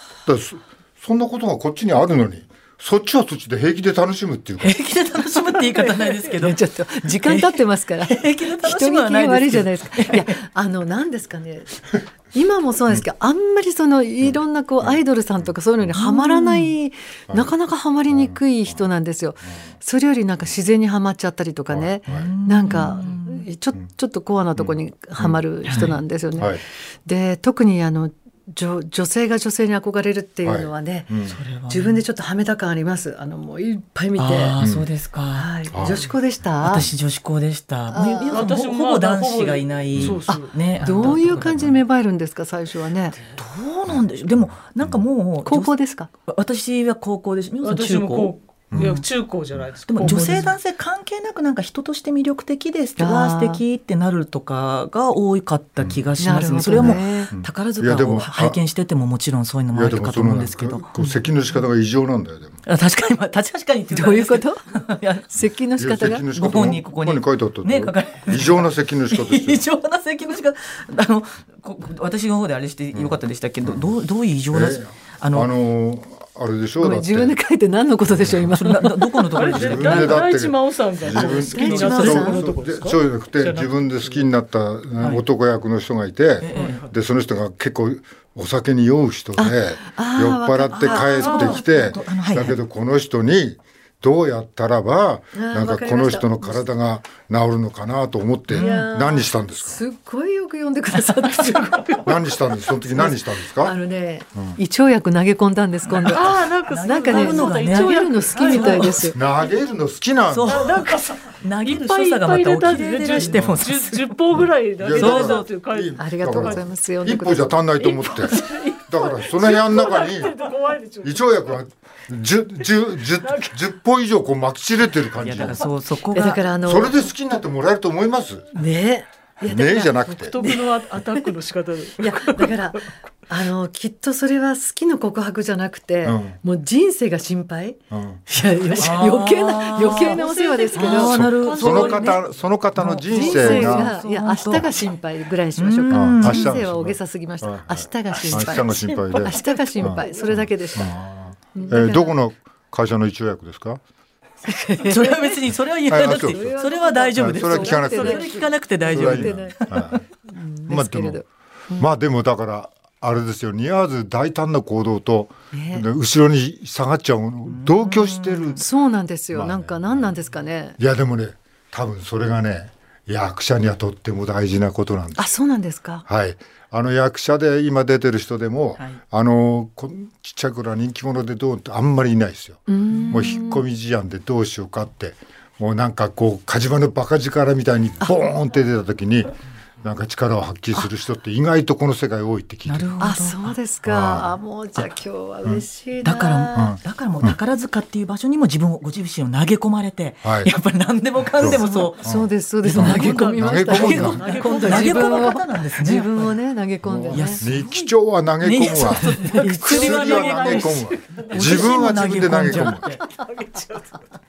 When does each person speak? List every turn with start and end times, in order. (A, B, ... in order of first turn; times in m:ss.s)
0:00.2-0:04.8 A
0:04.6-0:06.6 B
0:06.4-0:31.1 C
0:07.2-0:10.3 B
0:15.9-0:16.7 B
0:18.1-0:18.8 A
0:21.7-0:22.3 A
0:22.1-0:23.4 B
0:24.6-0:25.4 A
0:25.6-0:26.0 B
0:30.4-0:31.4 A
0:31.2-0:32.0 B
0:31.7-0:34.6 C
0:34.2-0:35.5 B
0:34.6-0:34.9 A
0:35.3-0:36.9 C
0:35.7-0:36.1 A
0:36.6-0:41.7 B
0:37.9-0:38.5 C
0:38.3-0:41.3 D
0:39.9-0:40.2 A
0:40.3-0:43.2 C
0:43.4-0:49.0 B
0:43.9-0:45.0 A
0:45.4-0:46.1 C
0:47.6-0:50.5 D
0:48.7-0:49.0 A
0:49.9-1:01.0 B
0:50.0-0:50.4 C
0:53.0-0:53.6 C
0:56.2-0:57.3 C
0:56.8-0:58.6 A
0:59.7-1:02.6 A
1:02.6-1:05.3 B
1:03.9-1:04.6 C
1:05.3-1:06.2 C
1:05.8-1:09.6 A
1:06.3-1:15.5 B
1:12.9-1:13.9 A
1:14.5-1:17.3 A
1:16.8-1:19.2 C
1:18.1-1:18.5 A
1:18.5-1:20.3 B
1:19.3-1:24.3 D
1:19.5-1:39.8 A
1:21.1-1:22.4 B
1:21.5-1:22.4 C
1:26.4-1:26.8 B
1:26.5-1:26.9 D
1:29.4-1:31.4 C
1:30.7-1:32.6 B
1:31.2-1:31.6 D
1:35.3-1:36.6 C
1:38.5-1:38.9 B
1:38.6-1:42.0 C
1:40.9-1:41.6 B
1:42.0-1:43.7 A
1:42.9-1:49.2 C
1:45.9-1:49.1 B
1:46.0-1:49.1 D
1:49.1-1:50.9 A
1:50.3-1:55.5 B
1:50.5-1:56.6 D
1:53.2-1:53.6 A
1:54.4-2:00.3 A
1:56.0-1:57.6 C
1:57.8-2:01.4 D
2:01.0-2:05.7 A
2:03.2-2:03.6 D
2:05.2-2:06.4 B
2:06.1-2:07.1 C
2:06.6-2:08.5 A
2:08.5-2:10.6 C
2:09.4-2:10.4 A
2:10.0-2:12.6 D
2:12.0-2:21.2 C
2:16.0-2:16.4 A
2:17.9-2:18.2 A
2:18.8-2:20.2 B
2:19.8-2:22.2 D
2:20.7-2:22.2 B
2:21.1-2:23.9 A
2:22.7-2:24.7 B
2:23.1-2:31.0 C
2:25.6-2:26.5 B
2:25.9-2:33.8 A
2:28.3-2:29.5 B
2:31.5-2:32.1 C
2:34.4-2:35.4 C
2:34.8-2:40.0 B
2:35.9-2:36.5 A
2:36.0-2:39.6 C
2:37.1-2:38.3 A
2:37.8-2:38.4 D
2:38.9-2:40.0 A
2:40.2-2:41.9 C
2:40.7-2:41.2 A
2:41.7-2:48.6 A
2:45.5-2:45.8 C
2:47.5-2:48.6 B
2:48.6-2:50.8 C
2:49.3-2:50.1 A
2:50.8-2:55.3 A
2:55.2-2:56.0 C
2:56.0-3:13.0 A
3:02.7-3:03.6 C
3:02.9-3:03.4 B
3:12.6-3:13.6 B
3:13.0-3:16.8 C
3:13.8-3:14.3 A
3:16.0-3:22.0 B
3:16.5-3:17.4 A
3:20.2-3:20.5 A
3:21.4-3:24.2 A
3:21.5-3:27.4 C
3:22.6-3:26.3 B
3:23.9-3:25.4 D
3:26.8-3:32.9 A
3:27.1-3:27.7 B
3:27.6-3:27.9 D
3:28.4-3:33.0 B
3:29.0-3:29.9 C
3:29.4-3:33.9 D